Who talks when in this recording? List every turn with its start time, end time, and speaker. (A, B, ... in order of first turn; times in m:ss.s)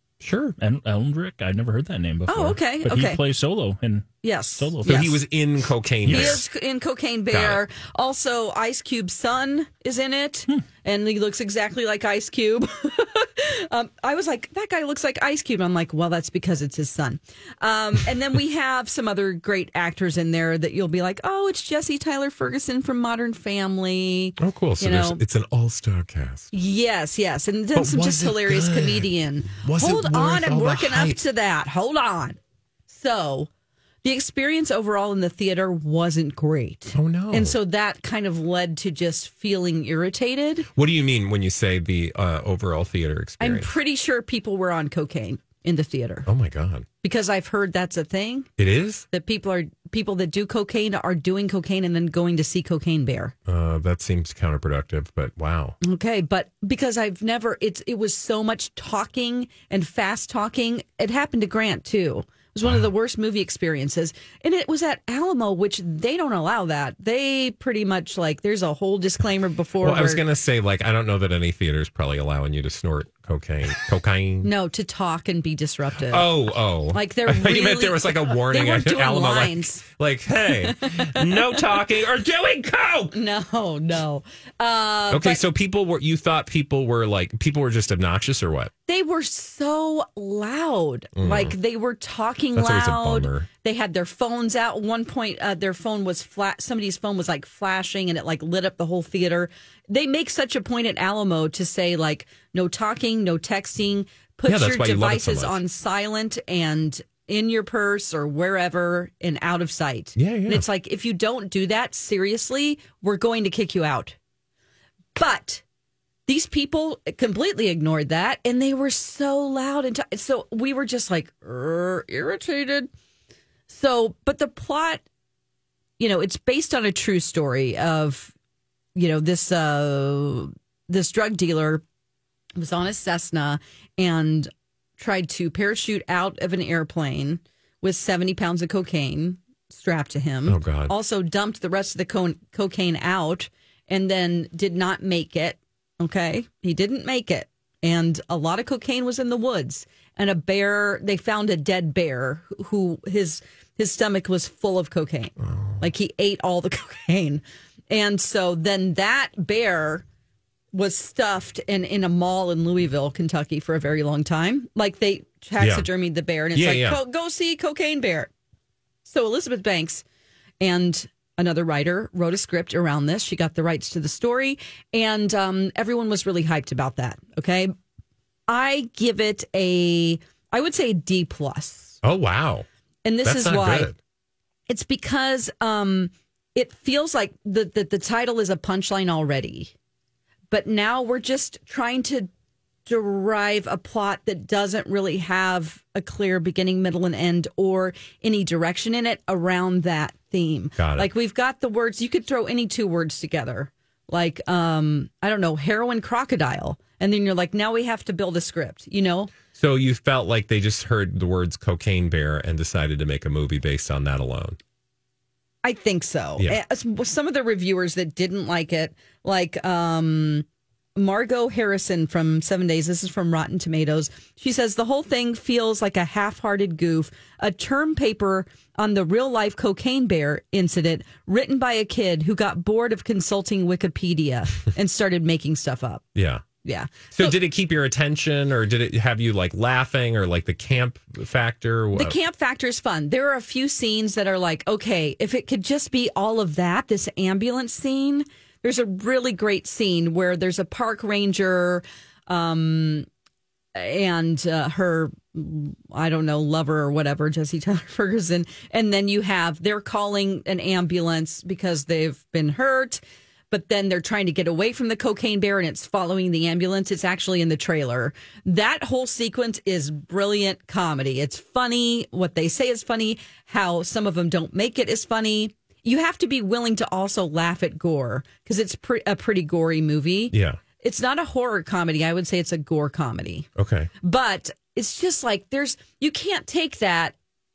0:00.2-0:00.6 A
0:00.6-0:05.1 B
0:02.3-0:03.2 C
0:04.2-0:05.2 C
0:04.8-0:06.4 A
0:06.1-0:25.2 C
0:06.1-0:06.4 B
0:07.3-0:07.6 A
0:24.4-0:26.5 A
0:26.5-0:32.4 C
0:27.7-0:31.2 A
0:32.9-0:33.5 C
0:34.0-0:40.7 C
0:36.9-0:37.6 A
0:40.7-0:43.8 A
0:43.4-0:46.3 C
0:46.3-0:46.9 A
0:47.0-0:48.5 C
0:48.6-0:49.1 A
0:49.1-0:53.3 C
0:53.5-0:55.8 A
0:55.8-1:10.2 C
1:09.8-1:14.5 A
1:14.4-1:16.3 C
1:16.1-1:23.2 A
1:16.9-1:19.8 C
1:20.6-1:21.6 C
1:23.1-1:25.4 C
1:25.1-1:28.7 A
1:28.9-1:54.2 C
1:31.2-1:31.6 A
1:32.5-1:33.5 A
1:44.5-1:45.6 A
1:50.2-1:50.6 A
1:55.2-1:55.6 C
1:56.3-2:02.9 C
2:03.7-2:05.0 C
2:06.0-2:08.3 C
2:09.0-2:11.8 C
2:12.6-2:40.0 C
2:20.5-2:20.9 A
2:35.5-2:35.8 A
2:40.7-2:48.3 C
2:45.6-2:45.9 A
2:46.5-2:47.0 A
2:49.0-2:50.0 C
2:50.6-2:57.7 C
2:58.5-3:02.0 C
3:02.0-3:02.7 A
3:03.0-3:03.9 C
3:03.2-3:04.0 A
3:04.7-3:09.7 C
3:10.5-3:12.3 C
3:12.9-3:29.3 C
3:20.8-3:21.1 A
3:29.5-3:34.6 A
3:35.6-3:56.0 C
3:56.2-3:56.4 A
3:56.6-3:57.4 C
3:57.1-4:02.2 A
4:01.9-4:13.1 C
4:13.8-4:43.5 C
4:40.3-4:40.6 A
4:43.6-4:43.9 A
4:44.0-4:47.2 C